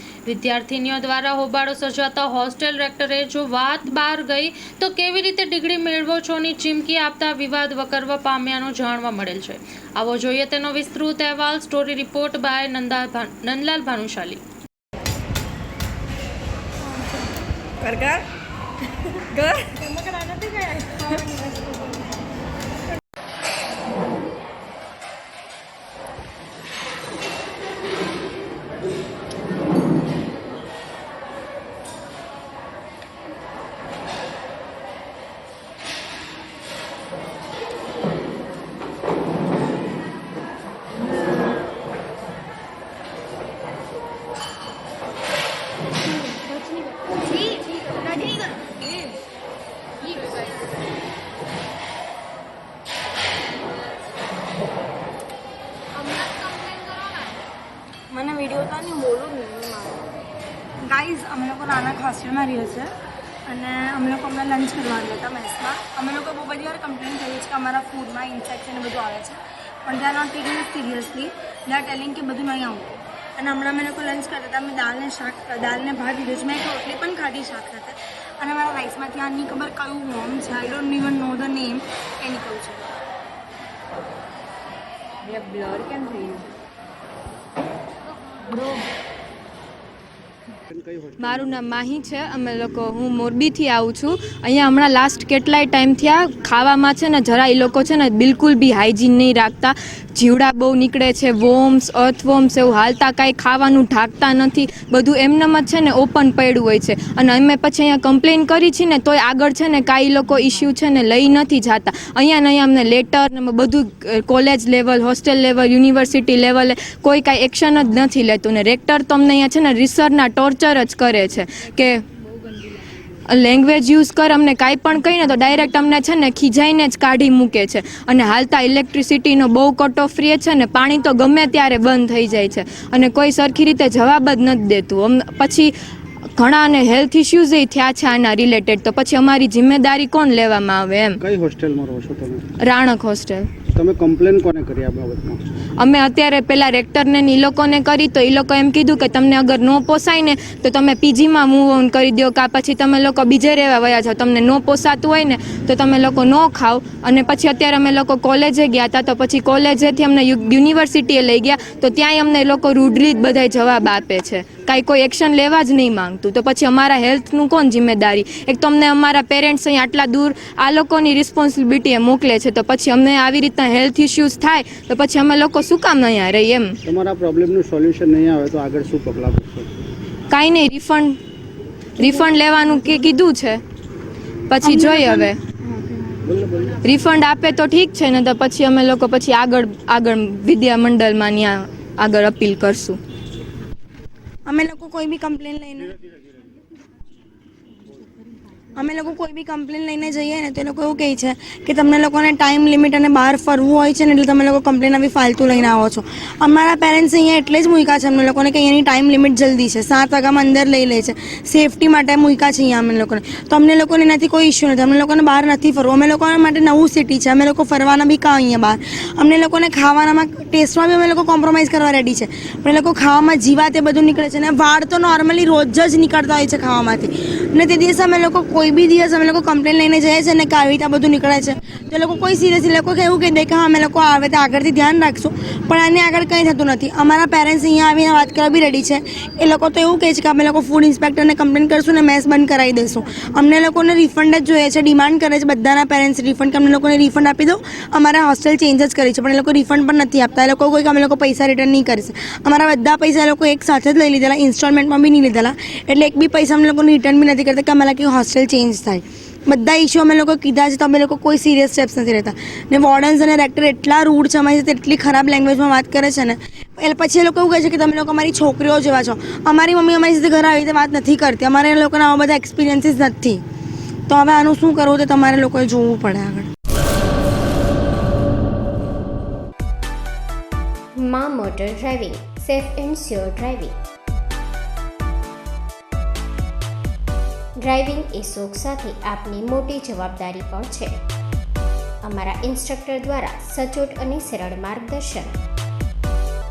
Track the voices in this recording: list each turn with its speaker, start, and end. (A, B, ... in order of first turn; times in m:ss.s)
0:00.3-0:14.4 A
0:20.1-0:21.5 B
0:47.3-0:48.8 B
0:58.1-1:00.0 B
1:00.8-1:02.9 B
1:03.5-1:22.9 B
1:30.7-1:31.5 C
1:31.2-2:02.0 D
2:03.3-2:15.7 D
2:16.4-2:21.2 D
2:21.2-2:22.4 C
2:22.6-2:23.4 D
2:23.7-2:25.4 C
2:25.8-2:56.8 D
2:56.8-2:59.8 C
3:00.3-3:01.2 D
3:02.0-3:03.6 D
3:04.5-3:05.4 D
3:04.6-3:05.3 B
3:06.2-3:06.8 C
3:06.8-3:13.0 D
3:14.5-3:16.0 B
3:18.7-4:33.4 B
4:34.1-4:36.5 B
4:41.0-4:43.7 E
4:47.6-4:50.9 E
4:52.0-4:55.3 E